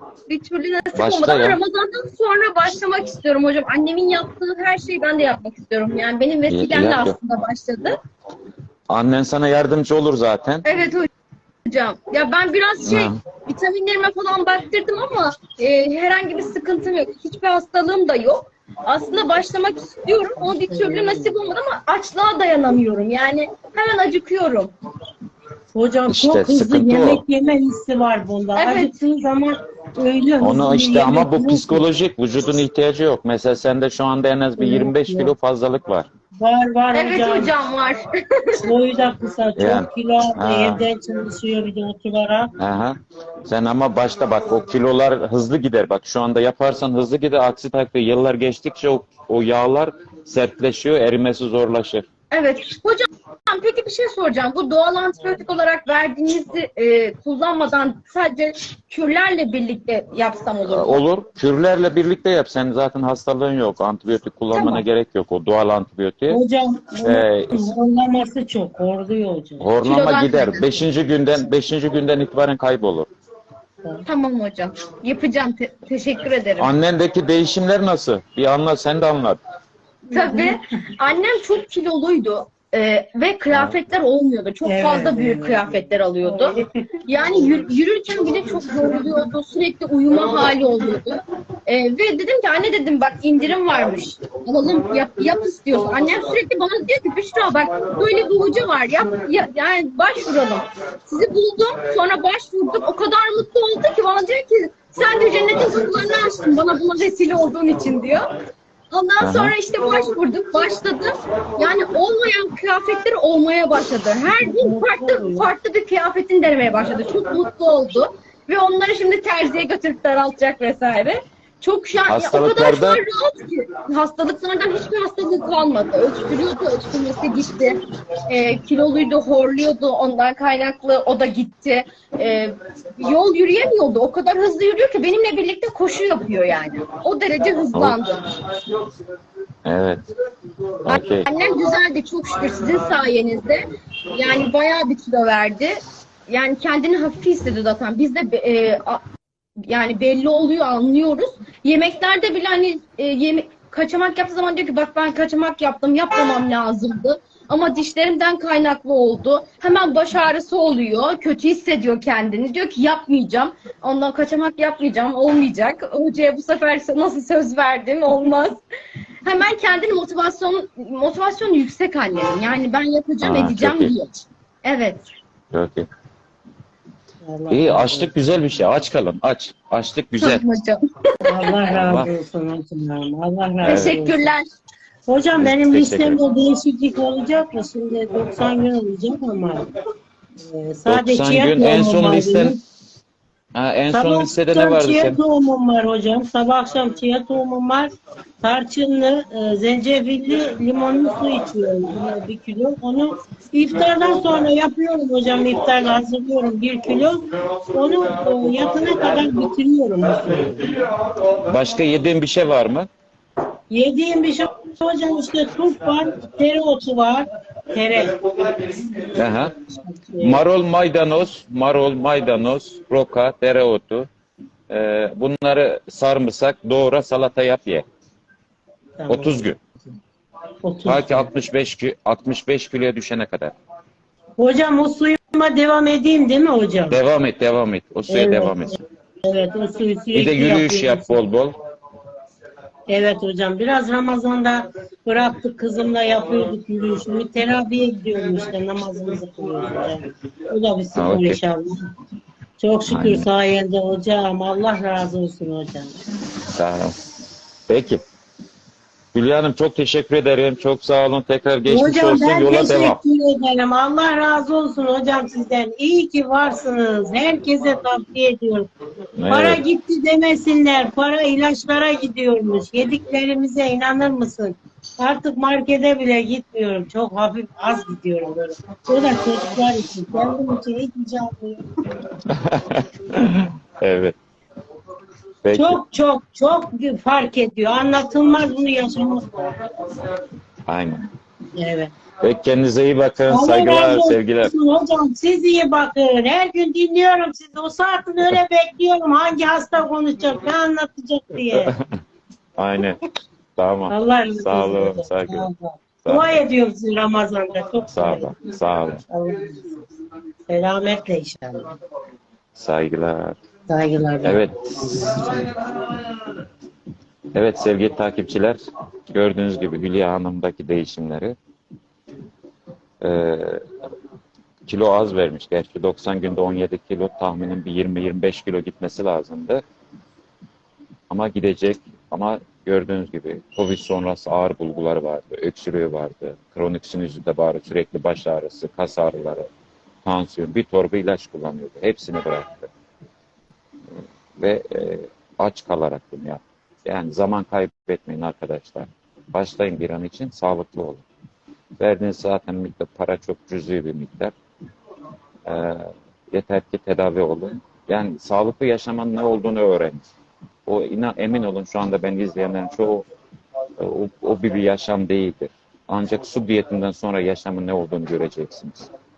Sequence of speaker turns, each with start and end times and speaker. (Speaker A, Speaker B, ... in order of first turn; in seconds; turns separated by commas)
Speaker A: 0.3-8.0, Speaker B: 0.9-1.6, Speaker B: 6.5-7.2, Speaker B: 8.9-10.7, Speaker A: 10.7-11.1, Speaker A: 11.7-24.7, Speaker B: 12.8-13.2, Speaker C: 20.4-21.4, Speaker C: 25.7-31.9, Speaker B: 26.1-27.2, Speaker A: 28.6-28.9, Speaker B: 30.4-36.1, Speaker C: 34.6-35.3, Speaker C: 36.4-37.5, Speaker A: 36.9-38.7, Speaker C: 38.6-42.5, Speaker B: 39.6-40.8, Speaker B: 42.6-52.1, Speaker A: 52.3-61.0, Speaker B: 60.7-66.4, Speaker A: 64.5-64.8, Speaker C: 66.3-69.7, Speaker B: 67.0-67.6, Speaker B: 69.6-73.1, Speaker A: 69.8-70.8, Speaker A: 74.1-76.7, Speaker B: 76.6-79.4, Speaker C: 80.1-80.6, Speaker A: 80.1-86.5, Speaker B: 83.5-83.8, Speaker C: 84.6-87.6, Speaker A: 87.1-108.3, Speaker A: 108.9-138.4, Speaker B: 109.2-109.6, Speaker C: 114.4-115.5, Speaker B: 122.1-123.0, Speaker B: 137.8-138.0, Speaker B: 139.7-140.0, Speaker B: 140.9-141.3, Speaker A: 140.9-149.0, Speaker A: 149.7-168.6, Speaker A: 169.2-174.1, Speaker B: 173.2-173.9, Speaker A: 174.6-175.1, Speaker B: 175.5-175.9, Speaker C: 177.2-178.1, Speaker B: 177.5-180.4, Speaker A: 180.2-181.6, Speaker C: 181.2-184.3, Speaker B: 181.7-182.1, Speaker B: 183.7-184.0, Speaker A: 183.7-184.4, Speaker C: 185.1-189.7, Speaker B: 185.4-186.2, Speaker C: 190.4-192.6, Speaker B: 190.9-192.6, Speaker B: 193.6-195.2, Speaker C: 193.9-210.9, Speaker B: 211.4-212.9, Speaker C: 213.7-218.2, Speaker B: 219.1-219.5, Speaker C: 219.8-220.4, Speaker B: 220.2-224.1, Speaker B: 224.7-227.8, Speaker C: 229.0-229.9, Speaker B: 229.1-229.6, Speaker C: 230.6-231.3, Speaker B: 230.8-233.6, Speaker C: 234.4-237.0, Speaker B: 236.9-238.8, Speaker C: 238.1-241.2, Speaker B: 240.1-241.6, Speaker C: 242.9-251.8, Speaker B: 250.9-251.4, Speaker C: 252.6-255.9, Speaker B: 252.9-253.3, Speaker B: 256.5-256.9, Speaker B: 257.7-258.0, Speaker B: 259.1-263.0, Speaker C: 261.7-268.7, Speaker B: 269.2-269.6, Speaker C: 269.3-281.7, Speaker B: 282.3-284.2, Speaker B: 285.4-285.8, Speaker C: 285.5-289.7, Speaker B: 290.7-291.1, Speaker C: 291.6-291.9, Speaker B: 292.2-294.5, Speaker C: 293.3-301.8, Speaker B: 301.5-301.9, Speaker B: 302.6-303.0, Speaker B: 303.6-305.5, Speaker C: 303.9-308.3, Speaker B: 306.0-306.4, Speaker B: 307.9-309.0, Speaker C: 309.1-309.8, Speaker C: 310.5-311.7, Speaker B: 312.6-313.4, Speaker C: 313.7-314.4, Speaker B: 314.2-315.4, Speaker B: 317.3-321.4, Speaker B: 323.0-323.6, Speaker B: 324.7-329.6, Speaker B: 331.1-339.5, Speaker B: 340.1-342.7, Speaker B: 344.0-351.0, Speaker B: 351.8-354.3, Speaker B: 355.5-360.1, Speaker B: 360.7-363.1, Speaker B: 363.8-368.9